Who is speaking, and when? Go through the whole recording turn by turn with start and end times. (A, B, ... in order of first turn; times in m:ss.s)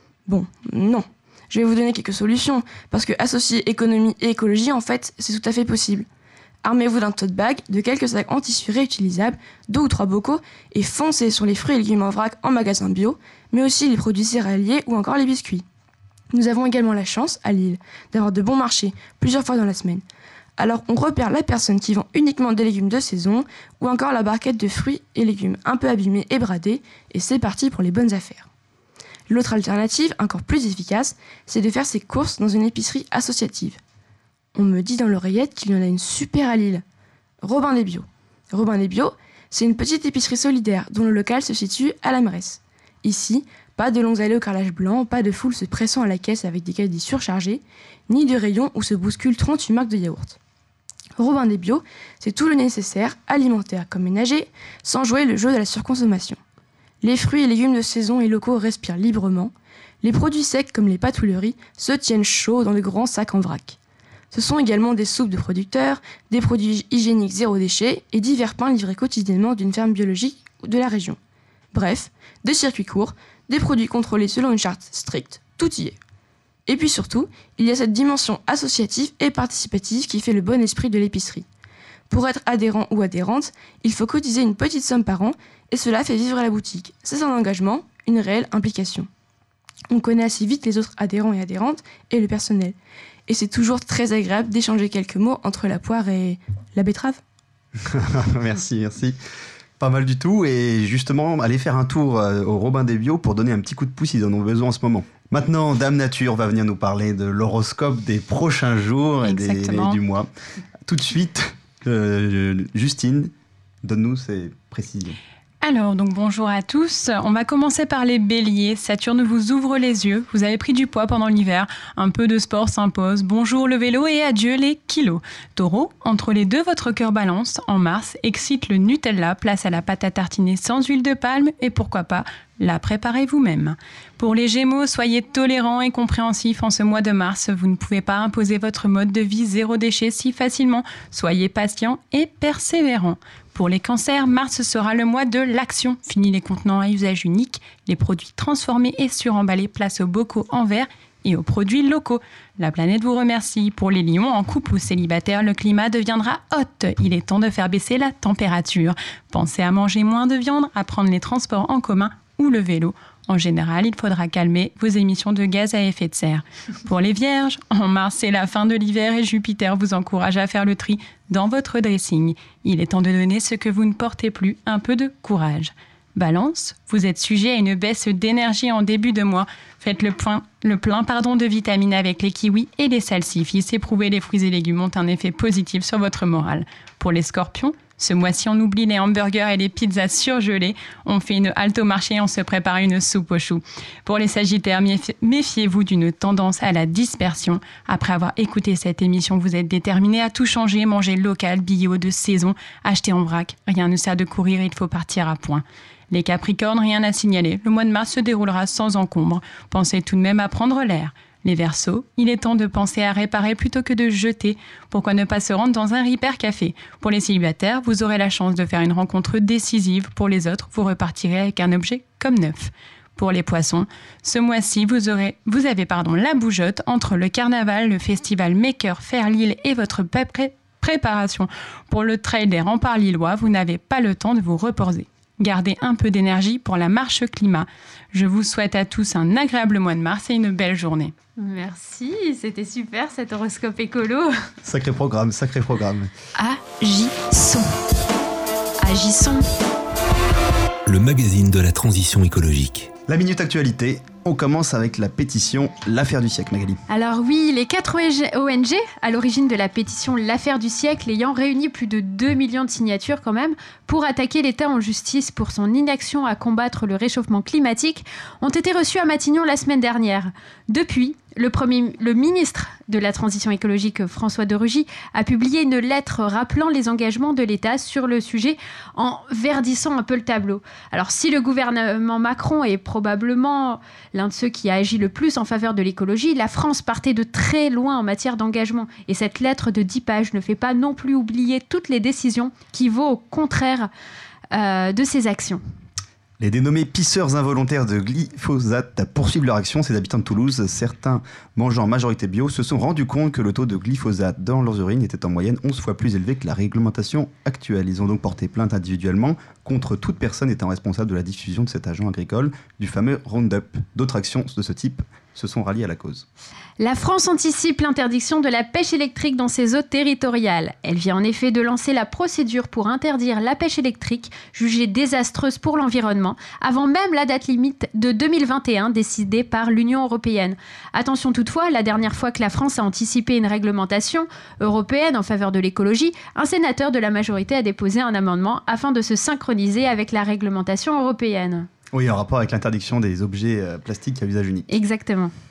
0:00.3-0:06.1 A
0:06.6-0:15.6 A
0:16.3-0:20.0 A
0:20.6-0:28.5 A
0:29.3-0:33.8 A
0:34.6-0:36.8 A
0:37.4-0:50.4 A
0:51.2-0:56.4 A
0:57.0-1:03.8 A
1:04.3-1:11.2 A
1:11.7-1:16.0 A
1:16.7-1:21.5 A
1:22.1-1:29.1 A
1:29.9-1:32.8 A
1:33.3-1:37.2 A
1:37.9-1:39.2 B
1:39.8-1:50.3 B
1:49.2-1:50.0 C
1:50.9-1:53.3 B
1:53.8-1:55.2 B
1:55.6-4:01.1 C
4:01.4-4:04.3 D
4:04.6-4:06.1 B
4:06.4-4:07.7 E
4:08.8-4:09.5 E
4:10.9-4:12.9 F
4:13.1-4:16.8 B
4:16.9-4:53.9 D
4:54.5-4:55.6 D
4:56.4-5:16.3 B
5:16.8-5:41.7 D
5:41.9-5:44.7 B
5:44.7-5:45.3 D